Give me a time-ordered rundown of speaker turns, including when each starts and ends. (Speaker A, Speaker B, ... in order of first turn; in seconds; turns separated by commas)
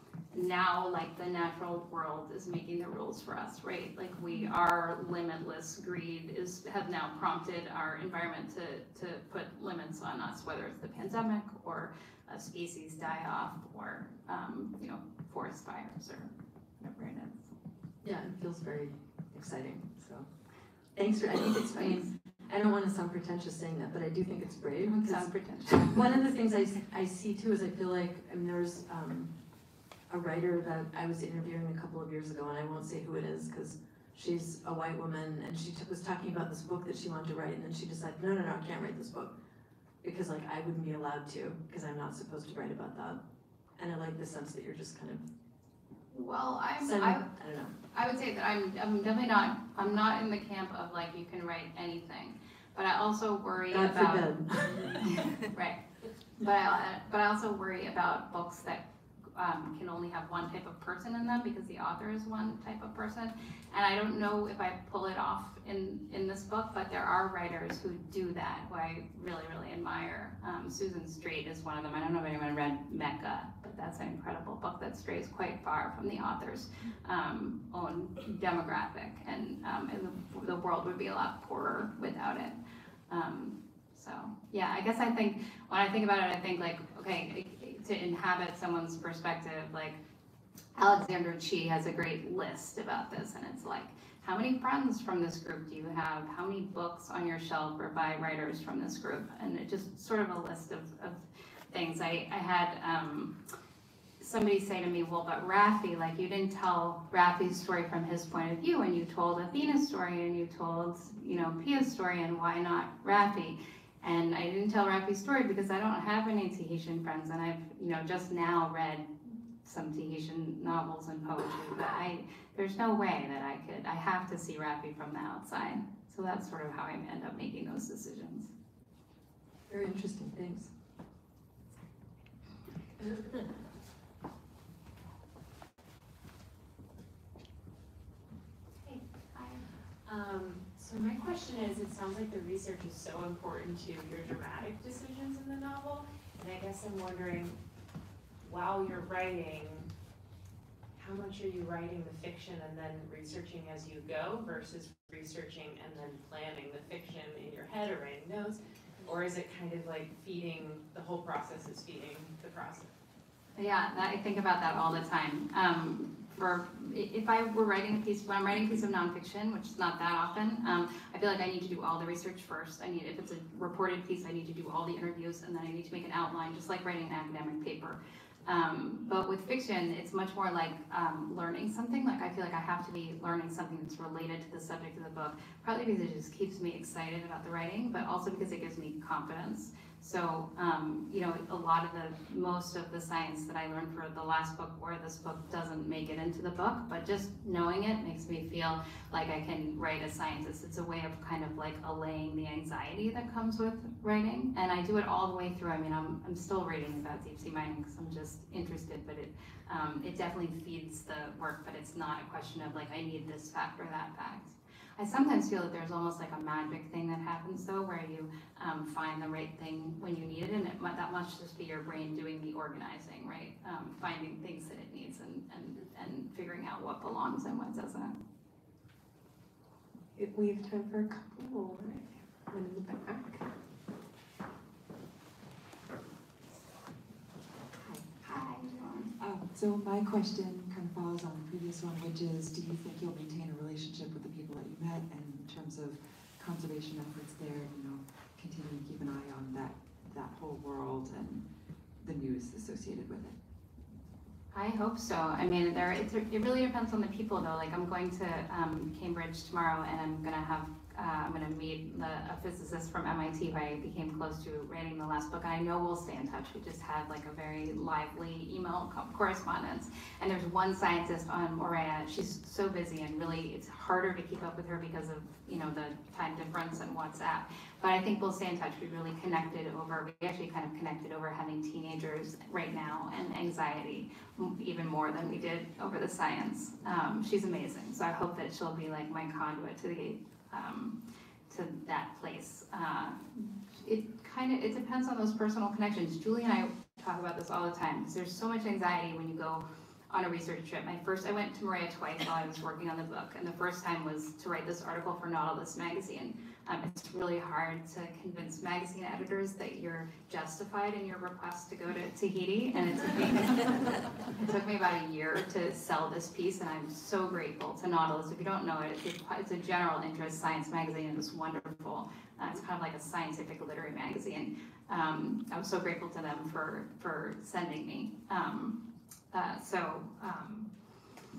Speaker A: 0.3-17.5, Speaker B: 18.0-20.3, Speaker B: 20.9-29.3, Speaker A: 21.7-22.1, Speaker A: 24.9-26.0, Speaker B: 30.1-39.3, Speaker B: 40.0-43.2, Speaker B: 43.8-45.2, Speaker A: 46.1-47.2, Speaker B: 46.8-47.7, Speaker A: 47.9-54.2, Speaker B: 53.7-55.1, Speaker A: 55.1-55.8, Speaker A: 56.4-58.8, Speaker A: 59.3-82.6, Speaker A: 83.1-90.0, Speaker A: 90.8-103.3, Speaker A: 104.2-119.1, Speaker A: 119.6-128.5, Speaker B: 129.7-130.7, Speaker C: 138.8-147.6, Speaker C: 148.4-149.9, Speaker C: 150.9-162.9, Speaker A: 163.6-228.2, Speaker D: 230.2-233.5, Speaker E: 237.8-251.4, Speaker A: 238.2-239.1, Speaker E: 252.0-253.4, Speaker A: 254.5-291.0, Speaker A: 291.5-328.8, Speaker A: 329.3-330.7